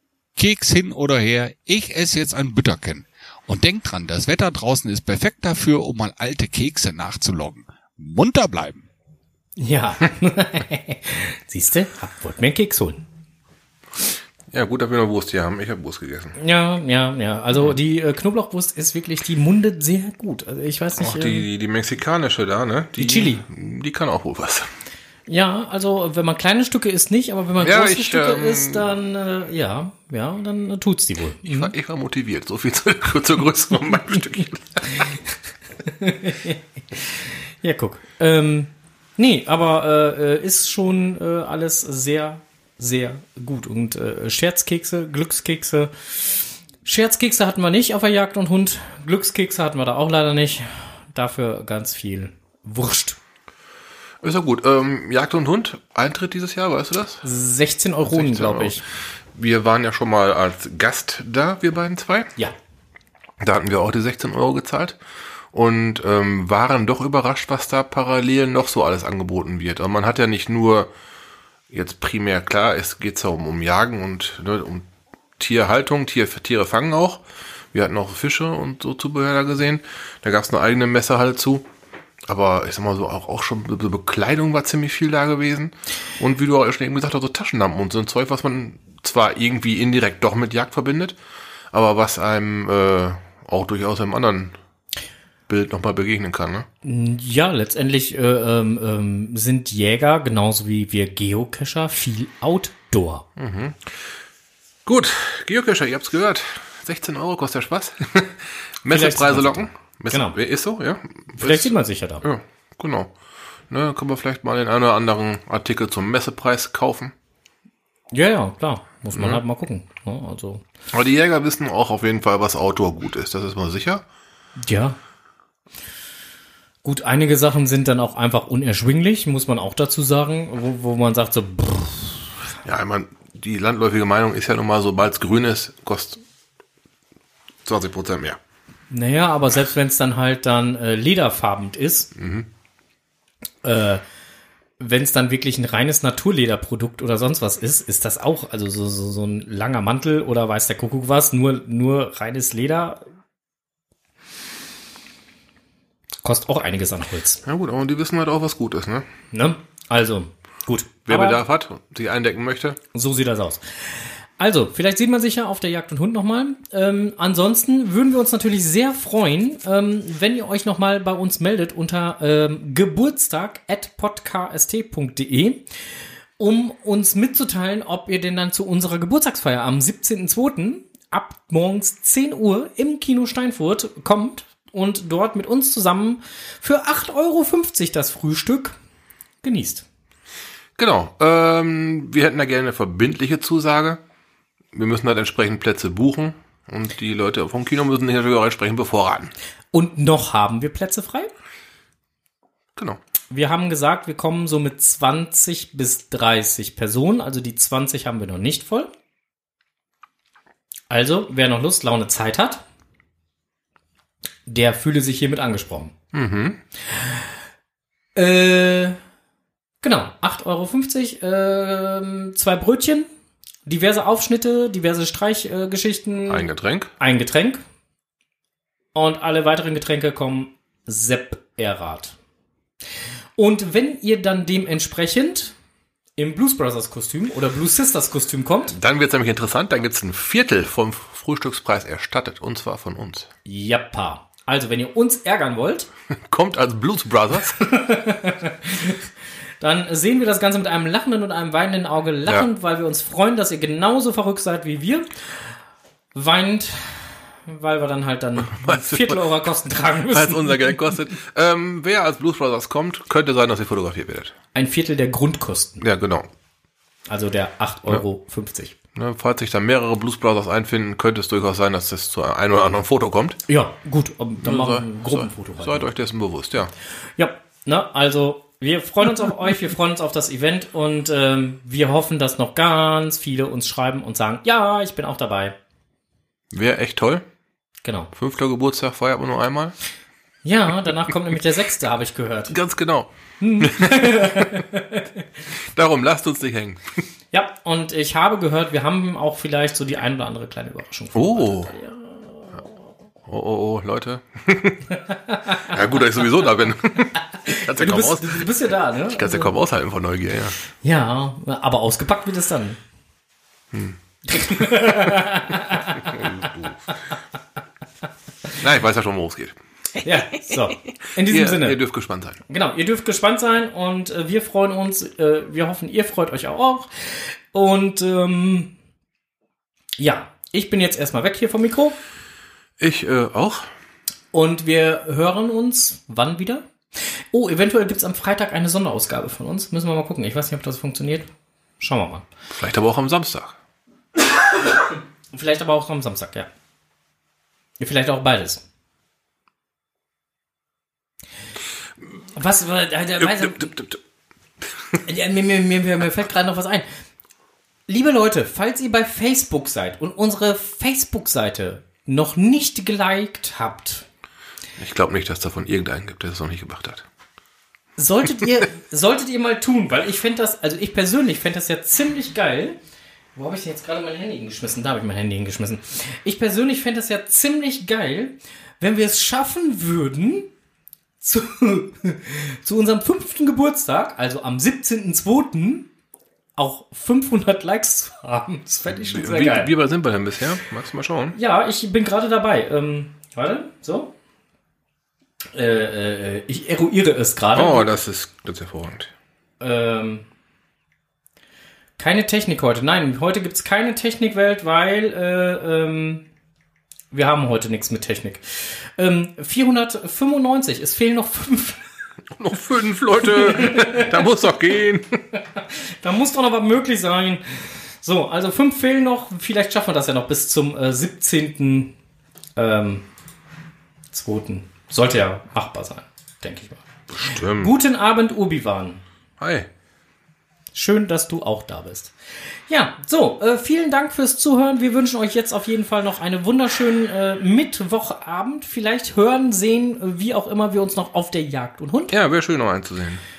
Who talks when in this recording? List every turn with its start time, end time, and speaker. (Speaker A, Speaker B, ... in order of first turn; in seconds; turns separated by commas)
Speaker A: 0.4-8.9, Speaker B: 9.6-13.0, Speaker C: 14.5-16.4, Speaker B: 16.4-21.4, Speaker C: 21.0-24.7, Speaker B: 23.0-23.4, Speaker B: 25.3-31.7, Speaker C: 27.6-28.9, Speaker C: 31.4-34.9, Speaker B: 34.8-35.2, Speaker B: 35.9-53.2, Speaker C: 54.2-57.2, Speaker B: 57.2-58.8, Speaker C: 58.1-58.8, Speaker C: 59.4-62.3, Speaker C: 63.4-65.0, Speaker C: 65.5-70.9, Speaker C: 71.7-74.9, Speaker C: 75.4-77.2, Speaker C: 77.7-81.7, Speaker C: 82.3-91.2, Speaker C: 91.7-94.6, Speaker C: 95.5-96.7, Speaker B: 96.8-103.3, Speaker C: 103.4-104.0, Speaker C: 104.9-113.1, Speaker B: 108.9-110.4, Speaker B: 111.4-112.2, Speaker C: 113.7-117.1, Speaker B: 118.1-120.6, Speaker C: 119.1-119.4, Speaker C: 120.9-124.0, Speaker B: 124.6-125.0, Speaker B: 126.8-132.2, Speaker C: 132.6-136.2, Speaker C: 137.7-138.4, Speaker B: 138.9-142.1, Speaker C: 142.2-142.5, Speaker B: 143.6-144.0, Speaker B: 144.8-153.0, Speaker B: 156.2-157.4, Speaker C: 157.4-159.1, Speaker B: 159.3-161.4, Speaker C: 161.1-162.8, Speaker B: 162.9-175.7, Speaker B: 176.4-188.8, Speaker B: 189.4-189.8, Speaker C: 190.8-194.0, Speaker C: 194.7-199.3, Speaker B: 199.7-201.3, Speaker B: 203.3-208.9, Speaker B: 210.9-212.6, Speaker B: 214.5-215.9, Speaker C: 216.1-216.6, Speaker B: 218.2-219.0, Speaker B: 219.8-223.1, Speaker B: 223.7-226.5, Speaker C: 226.3-226.9, Speaker B: 227.0-227.6, Speaker B: 228.9-232.2, Speaker B: 233.4-235.5, Speaker B: 236.2-238.8, Speaker C: 238.7-243.3, Speaker B: 243.5-245.9, Speaker C: 246.3-247.7, Speaker B: 247.6-249.0, Speaker B: 249.6-255.1, Speaker B: 256.1-260.8, Speaker C: 258.4-259.2, Speaker C: 260.1-264.4, Speaker B: 264.5-265.8, Speaker C: 265.8-266.3, Speaker B: 267.1-268.8, Speaker C: 268.9-273.4, Speaker B: 273.5-275.9, Speaker C: 274.4-276.7, Speaker B: 277.2-285.6, Speaker C: 286.5-287.2, Speaker B: 287.8-288.1, Speaker C: 288.1-289.8, Speaker B: 290.4-292.6, Speaker C: 292.5-294.6, Speaker B: 293.4-295.2, Speaker C: 295.7-296.8, Speaker B: 297.3-302.6, Speaker C: 301.1-301.7, Speaker C: 303.2-304.9, Speaker B: 305.1-305.7, Speaker C: 305.7-308.5, Speaker B: 307.4-309.5, Speaker C: 309.1-310.6, Speaker B: 310.8-312.8, Speaker C: 313.7-314.7, Speaker B: 314.3-316.2, Speaker C: 316.1-316.8, Speaker C: 318.6-319.6, Speaker B: 320.0-321.8, Speaker C: 321.3-322.4, Speaker B: 322.5-328.7, Speaker B: 330.0-332.0, Speaker C: 332.8-333.7, Speaker B: 334.3-336.7, Speaker B: 337.3-342.3, Speaker C: 342.5-343.6, Speaker B: 345.3-346.5, Speaker B: 347.8-348.6, Speaker B: 352.4-353.8, Speaker C: 353.2-354.0, Speaker B: 355.0-356.9, Speaker B: 357.9-364.1, Speaker C: 364.8-367.1, Speaker B: 368.0-372.8, Speaker B: 373.4-380.5, Speaker B: 381.2-385.9, Speaker B: 386.6-389.7, Speaker C: 388.9-391.4, Speaker B: 391.3-394.1, Speaker B: 395.5-397.9, Speaker C: 397.6-399.1, Speaker B: 399.6-400.2, Speaker B: 402.0-406.2, Speaker B: 407.1-411.8, Speaker C: 412.4-415.2, Speaker B: 413.2-414.2, Speaker B: 415.6-421.9, Speaker B: 422.6-423.1, Speaker B: 424.1-429.0, Speaker C: 427.1-427.8, Speaker C: 429.4-429.7, Speaker B: 430.7-432.1, Speaker B: 432.7-442.1, Speaker C: 442.1-443.2